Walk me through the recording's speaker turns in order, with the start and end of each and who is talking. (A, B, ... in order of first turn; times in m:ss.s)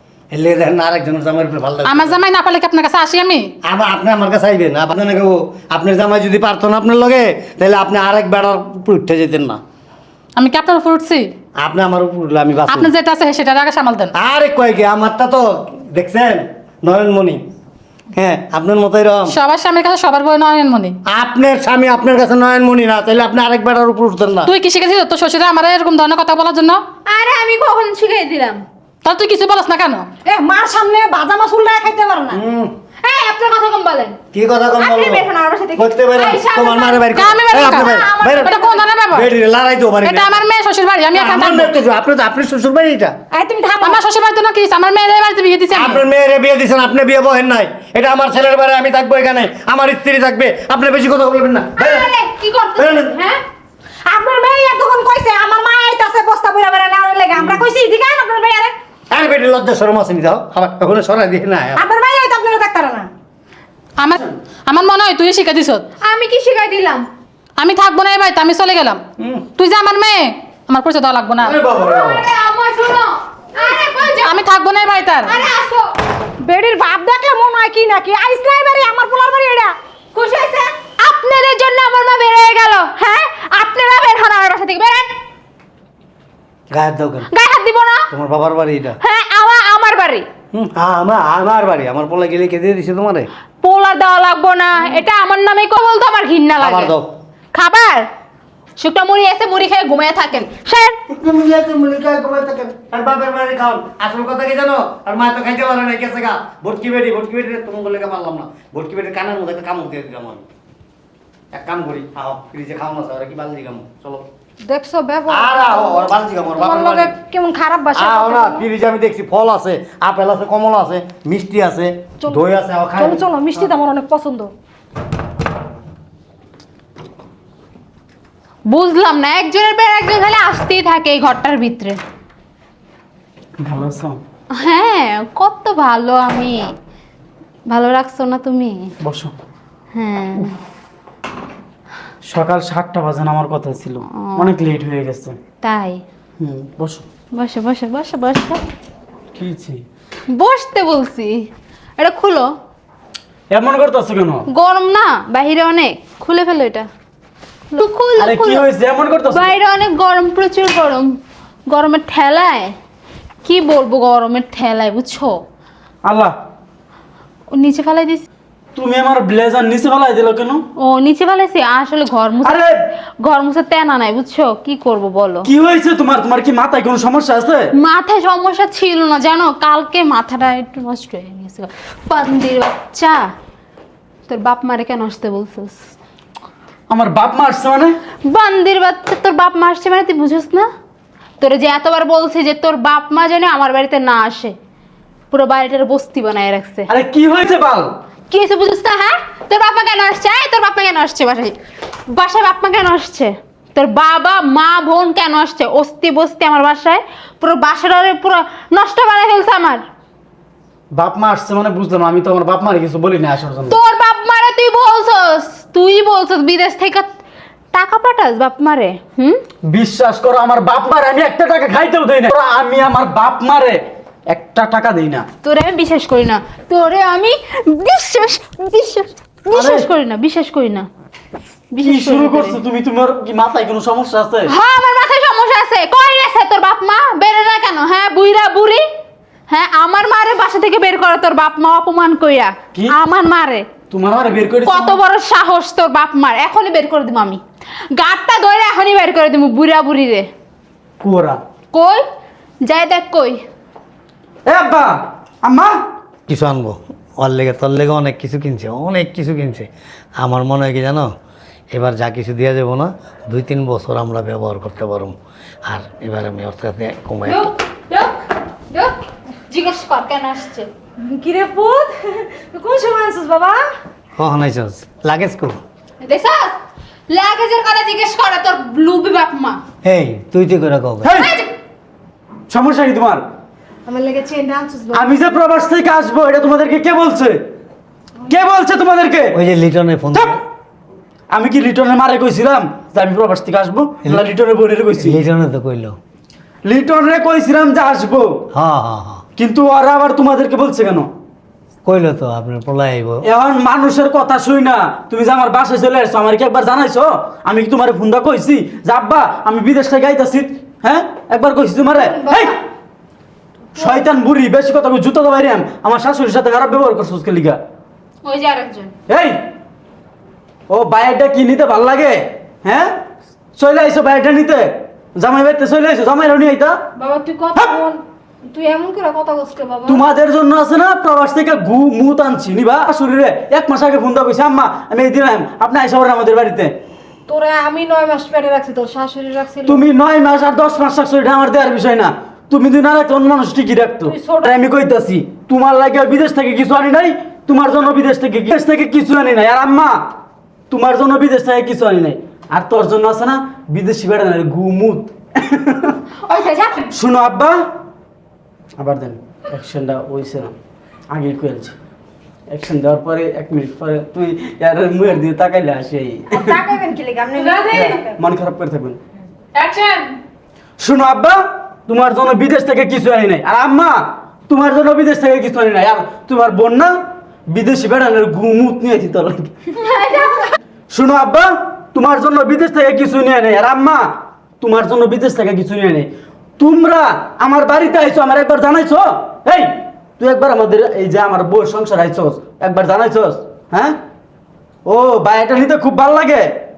0:00.3-0:02.2 A
0:01.8-0:03.5 B
0:03.6-0:09.6 A
0:10.4-0:11.3 B
0:11.6-0:12.9 A
0:12.7-0:14.1 B
0:14.1-0:17.4 A
0:18.1-0:19.3 A
0:19.3-0:21.0 B
0:21.1-0:24.5 A
0:24.4-0:26.8 B
0:27.0-0:28.6 C
0:29.0-0:30.1 B
0:30.2-0:32.4 D
0:32.3-0:32.7 A
0:33.0-0:34.2 C
0:34.3-0:40.4 A
0:34.8-0:37.2 C
0:37.1-0:39.3 B
0:37.5-0:38.8 D
0:37.9-0:38.2 C
0:40.0-0:41.7 B
0:41.1-0:43.1 A
0:43.3-0:44.0 D
0:43.8-0:46.0 B
0:45.7-0:52.1 A
0:51.8-0:53.4 C
0:52.8-0:53.2 A
0:54.0-0:58.7 D
0:59.1-1:01.8 A
1:01.8-1:03.1 D
1:04.0-1:05.9 B
1:04.1-1:04.4 E
1:06.0-1:07.0 C
1:07.6-1:09.0 B
1:09.2-1:09.4 A
1:09.6-1:11.6 B
1:11.4-1:12.3 A
1:11.7-1:14.3 C
1:14.2-1:15.4 B
1:15.2-1:15.9 C
1:16.4-1:19.7 D
1:20.1-1:25.1 C
1:26.7-1:27.3 A
1:27.3-1:28.1 C
1:28.1-1:29.0 A
1:29.0-1:30.3 C
1:30.5-1:33.3 A
1:33.6-1:36.9 C
1:36.6-1:37.1 A
1:37.5-1:38.1 C
1:38.8-1:41.0 C
1:41.1-1:50.4 A
1:51.5-1:54.2 A
1:54.6-1:58.6 D
1:55.3-1:57.1 A
1:57.9-2:03.2 A
2:03.0-2:04.5 D
2:08.7-2:12.0 C
2:13.6-2:14.2 E
2:14.5-2:16.6 C
2:17.7-2:18.9 C
2:19.0-2:19.3 E
2:19.9-2:20.6 C
2:22.3-2:25.4 E
2:24.1-2:24.5 C
2:25.6-2:26.0 C
2:26.4-2:27.0 E
2:27.3-2:28.6 C
2:29.3-2:29.8 E
2:30.3-2:32.5 C
2:33.5-2:34.4 E
2:34.5-2:36.9 C
2:37.7-2:38.6 C
2:38.2-2:39.5 E
2:39.3-2:41.1 C
2:41.7-2:42.7 C
2:43.4-2:45.4 C
2:46.0-2:46.3 E
2:47.5-2:48.2 C
2:48.7-2:50.6 E
2:50.8-2:52.7 C
2:52.4-2:52.7 E
2:53.2-2:55.5 C
2:55.4-2:57.7 E
2:57.8-3:03.2 C
3:04.3-3:05.8 C
3:06.9-3:08.0 E
3:08.2-3:10.7 C
3:11.4-3:14.6 C
3:15.3-3:16.9 C
3:16.9-3:17.9 E
3:18.3-3:21.6 C
3:22.1-3:29.8 C
3:30.9-3:33.8 E
3:33.7-3:37.1 C
3:37.7-3:39.4 C
3:39.6-3:45.3 E
3:45.4-3:50.9 C
3:49.5-3:49.9 E
3:51.7-3:52.6 C
3:51.8-3:54.5 E
3:54.5-3:58.8 C
3:59.5-4:03.7 C
4:03.9-4:05.0 E
4:04.6-4:10.3 C
4:11.0-4:11.4 E
4:11.7-4:12.0 C
4:12.6-4:13.4 C
4:14.4-4:15.8 E
4:16.3-4:21.1 A
4:21.7-4:27.5 A
4:27.2-4:29.0 C
4:29.5-4:30.7 C
4:31.0-4:33.6 D
4:34.2-4:35.6 A
4:36.0-4:36.6 C
4:37.1-4:39.6 C
4:39.8-4:41.1 A
4:41.0-4:41.3 E
4:41.1-4:41.5 C
4:42.5-4:43.2 E
4:43.8-4:45.1 D
4:44.9-4:47.4 E
4:48.3-4:49.4 E
4:49.3-4:50.4 A
4:51.3-4:55.2 E
4:55.0-4:56.0 A
4:56.6-4:58.4 E
4:58.5-4:59.2 A
4:59.4-5:01.1 E
5:01.8-5:03.2 A
5:03.2-5:12.6 E
5:12.1-5:12.4 D
5:13.7-5:17.6 E
5:18.2-5:18.9 C
5:19.1-5:19.4 E
5:20.7-5:23.0 E
5:23.6-5:26.8 E
5:27.0-5:30.0 D
5:29.8-5:36.8 E
5:37.3-5:39.8 D
5:39.6-5:50.1 E
5:50.7-5:56.0 E
5:56.3-5:56.8 C
5:56.3-5:56.8 D
5:56.9-5:57.6 E
5:58.8-6:00.5 E
6:01.1-6:01.7 E
6:02.5-6:06.6 E
6:06.3-6:08.1 D
6:07.3-6:07.8 B
6:07.7-6:09.0 E
6:09.5-6:10.2 B
6:10.8-6:19.5 E
6:19.7-6:20.5 C
6:20.9-6:34.0 E
6:34.8-6:36.6 E